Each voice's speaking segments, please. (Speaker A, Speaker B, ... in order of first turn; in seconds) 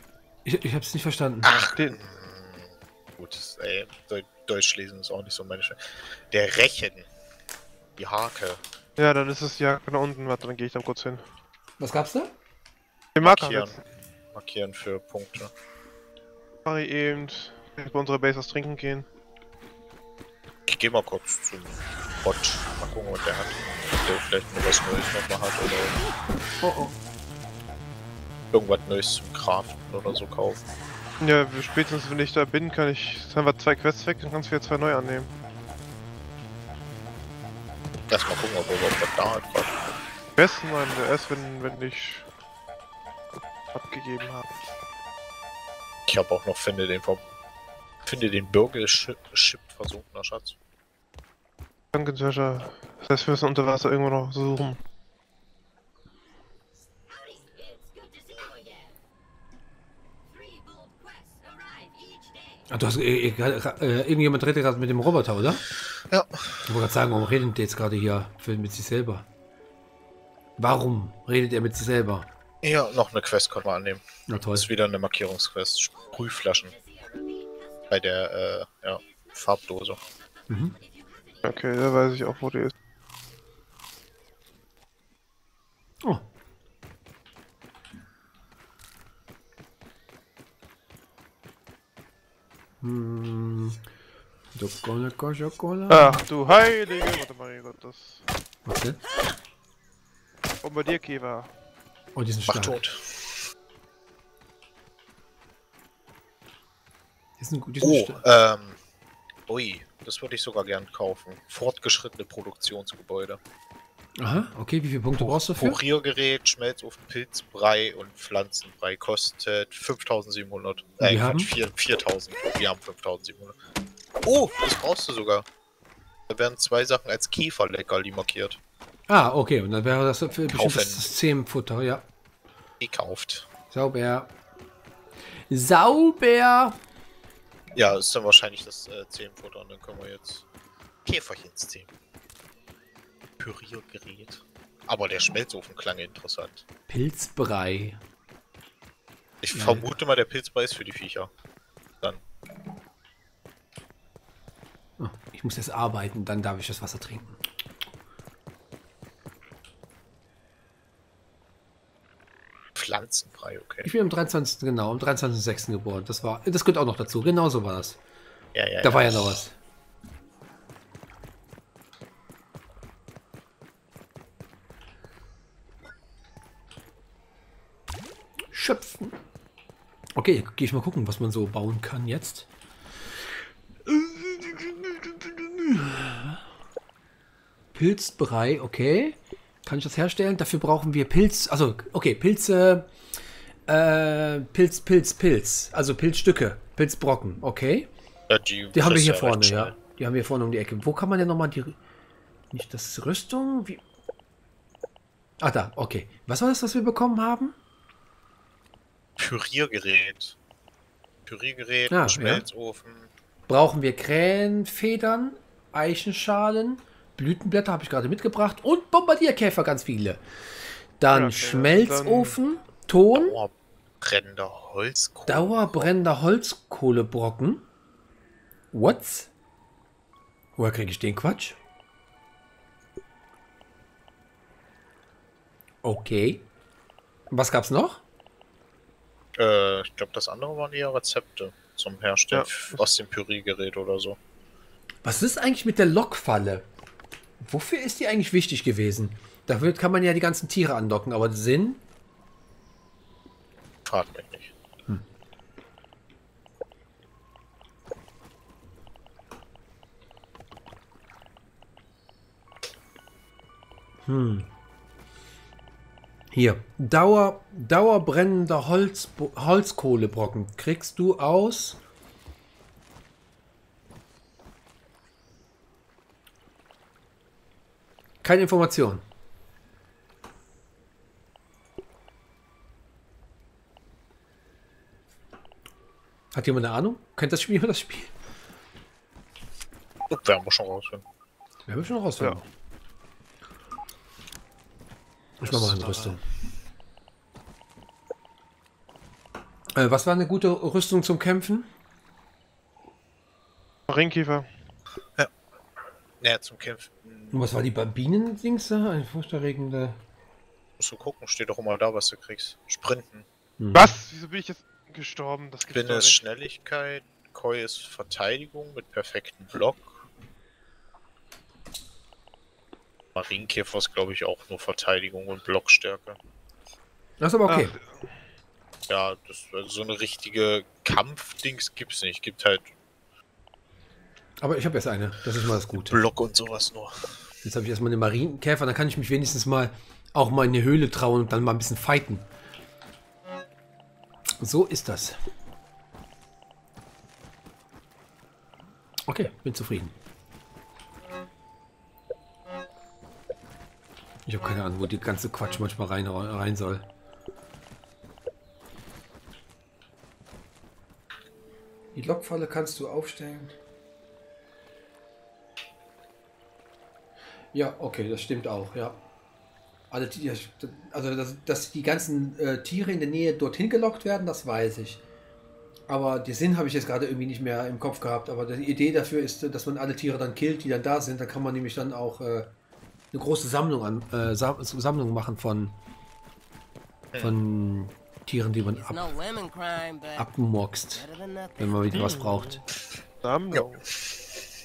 Speaker A: 0.4-1.5, 11.8-12.3, 62.7-65.6, 66.6-69.2, 70.6-72.3, 74.3-74.7, 80.5-80.8, 92.8-93.8, 94.5-96.2, 98.6-99.0, 102.1-102.8, 107.4-108.2, 114.2-115.8, 121.0-121.5, 129.1-132.1, 133.7-134.3, 135.5-136.8, 146.9-148.0, 149.5-149.8, 155.0-157.4, 163.8-168.0, 168.8-169.6, 178.5-179.2, 180.2-182.5, 183.8-186.4, 187.7-192.9, 193.7-197.9, 198.7-201.8, 202.5-203.8, 205.4-207.5, 211.9-212.4, 213.5-220.2, 221.0-223.4, 225.3-227.7, 228.7-229.3, 230.6-231.6, 235.8-236.4, 237.3-238.0, 245.0-246.7, 247.4-251.8, 264.1-264.5, 266.3-271.8, 278.2-279.0, 286.3-288.1, 291.6-292.5, 295.4-296.2, 299.7-301.7, 307.3-310.0, 313.6-314.0, 327.2-327.8, 334.4-336.0, 337.4-342.3, 344.4-345.2, 349.1-349.9, 354.2-356.8, 361.9-363.6, 367.5-369.0, 369.9-375.0, 375.9-382.5, 383.1-385.8, 387.2-389.1, 390.1-391.0, 391.6-392.6
Speaker B: 1.4-7.1, 8.0-8.6, 13.2-13.8, 14.3-15.5, 20.7-26.0, 28.5-30.6, 38.1-39.8, 46.1-47.2, 48.0-50.5, 65.9-66.6, 72.6-76.8, 77.9-80.0, 102.5-103.4, 107.8-108.8, 109.5-113.4, 115.2-123.6, 124.2-125.5, 126.3-128.6, 130.5-131.1, 132.8-133.5, 137.7-140.4, 141.0-141.9, 143.4-146.6, 149.4-151.3, 162.7-163.9, 168.5-169.4, 198.3-199.8, 209.2-210.3, 211.2-213.1, 223.1-225.9, 239.3-244.2, 253.8-254.5, 290.1-291.0, 295.4-296.2, 306.2-307.5, 310.8-313.2, 315.7-320.0, 323.1-326.2, 328.9-332.7, 335.7-337.3, 387.1-387.4, 393.5-394.2
Speaker C: 9.0-11.2, 13.1-13.8, 16.6-19.1, 26.6-26.9, 31.2-35.3, 40.4-42.2, 43.7-44.5, 51.9-54.8, 81.4-82.7, 95.9-98.2, 100.6-101.5, 221.1-222.4, 242.3-242.8, 303.9-304.5, 313.7-316.2, 327.5-328.1, 391.9-392.6, 393.2-393.8
Speaker D: 388.7-390.3, 390.9-391.8